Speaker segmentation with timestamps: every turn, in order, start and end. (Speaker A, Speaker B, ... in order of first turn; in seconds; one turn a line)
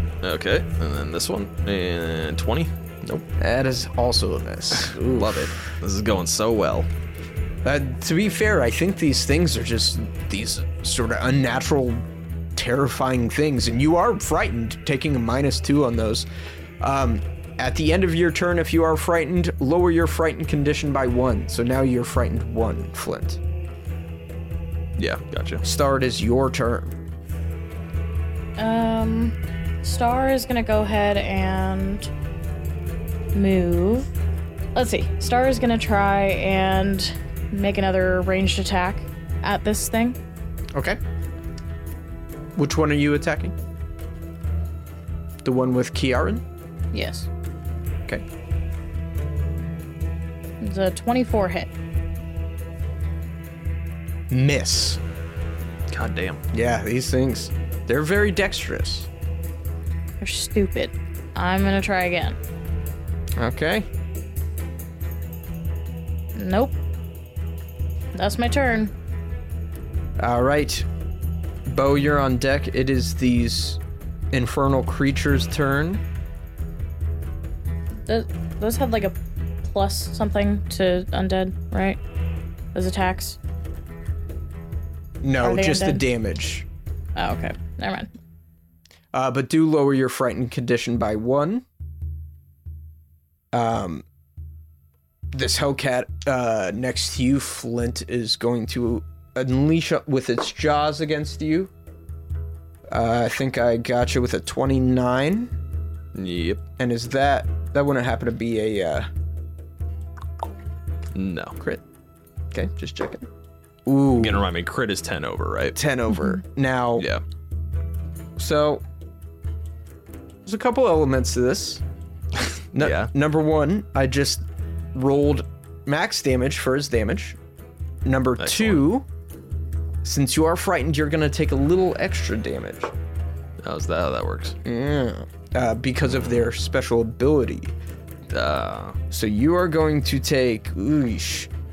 Speaker A: 0.2-3.3
Speaker B: 3.4-5.6
Speaker A: 4.8-6.9
Speaker B: 7.6-16.2
Speaker B: 16.8-23.4
Speaker A: 25.0-25.6
Speaker B: 25.6-26.9
Speaker C: 28.6-32.1
Speaker C: 33.3-34.1
Speaker C: 34.7-40.2
Speaker B: 40.7-41.0
Speaker B: 42.5-43.5
Speaker B: 45.4-46.4
Speaker C: 46.9-47.3
Speaker C: 50.6-51.7
Speaker B: 54.3-55.0
Speaker A: 55.9-56.4
Speaker B: 56.5-59.1
Speaker C: 60.2-62.4
Speaker B: 63.4-63.9
Speaker C: 66.3-66.8
Speaker C: 68.1-68.9
Speaker B: 70.2-70.9
Speaker B: 71.7-73.8
Speaker B: 74.3-76.0
Speaker C: 78.1-82.0
Speaker C: 82.7-83.4
Speaker B: 85.2-86.7
Speaker C: 85.4-86.0
Speaker C: 87.1-88.1
Speaker B: 89.1-91.6
Speaker B: 93.5-94.0
Speaker B: 95.3-101.7
Speaker B: 102.9-105.5
Speaker A: 106.1-106.6
Speaker B: 106.8-109.1
Speaker A: 111.1-111.6
Speaker B: 112.5-113.3
Speaker B: 113.8-114.4
Speaker A: 114.2-115.8
Speaker B: 115.7-117.0
Speaker B: 118.4-118.8
Speaker B: 120.5-121.8
Speaker B: 122.7-127.4
Speaker A: 122.8-123.1
Speaker B: 128.0-129.1
Speaker A: 128.4-128.9
Speaker B: 130.0-132.9
Speaker A: 133.6-134.6
Speaker B: 134.6-137.7
Speaker A: 136.1-136.4
Speaker A: 138.3-139.0
Speaker B: 139.1-141.5